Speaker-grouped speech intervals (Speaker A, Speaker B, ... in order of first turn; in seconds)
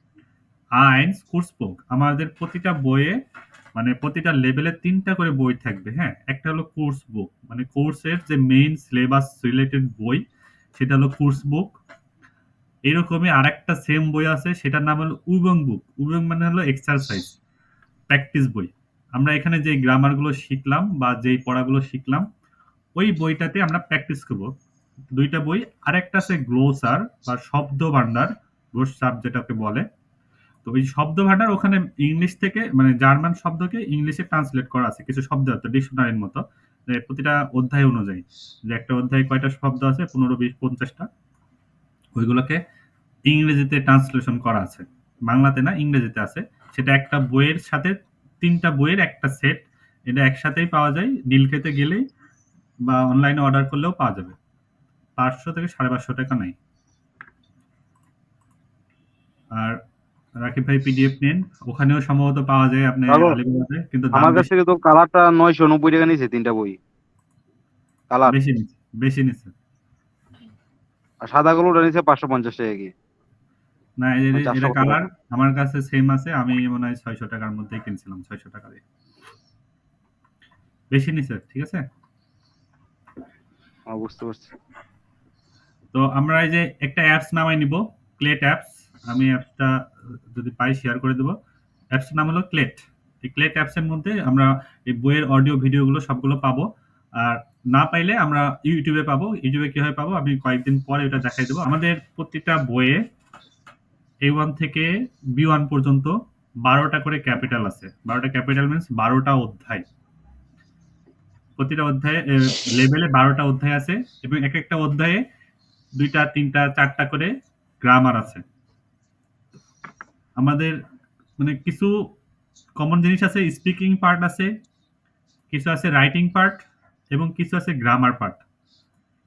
Speaker A: 0.8-3.2, 3.8-10.2, 10.8-11.8, 12.9-17.4, 18.1-22.3, 23.0-24.5, 25.1-29.9, 30.6-41.1, 42.2-42.6, 43.3-52.0, 52.9-54.4, 55.2-56.6, 60.4-64.5, 68.3-69.5, 74.0-78.8, 80.9-81.8, 85.9-89.7, 90.3-91.4, 92.0-96.7, 97.2-103.0, 104.3-106.2, 106.7-109.8, 111.6-115.2, 116.0-117.3, 117.8-118.4, 120.4-120.8, 121.4-121.9, 122.8-124.5, 125.5-126.6, 127.1-128.4
Speaker B: 63.1-63.4, 64.1-66.8, 71.3-72.9, 74.3-75.0, 83.9-84.5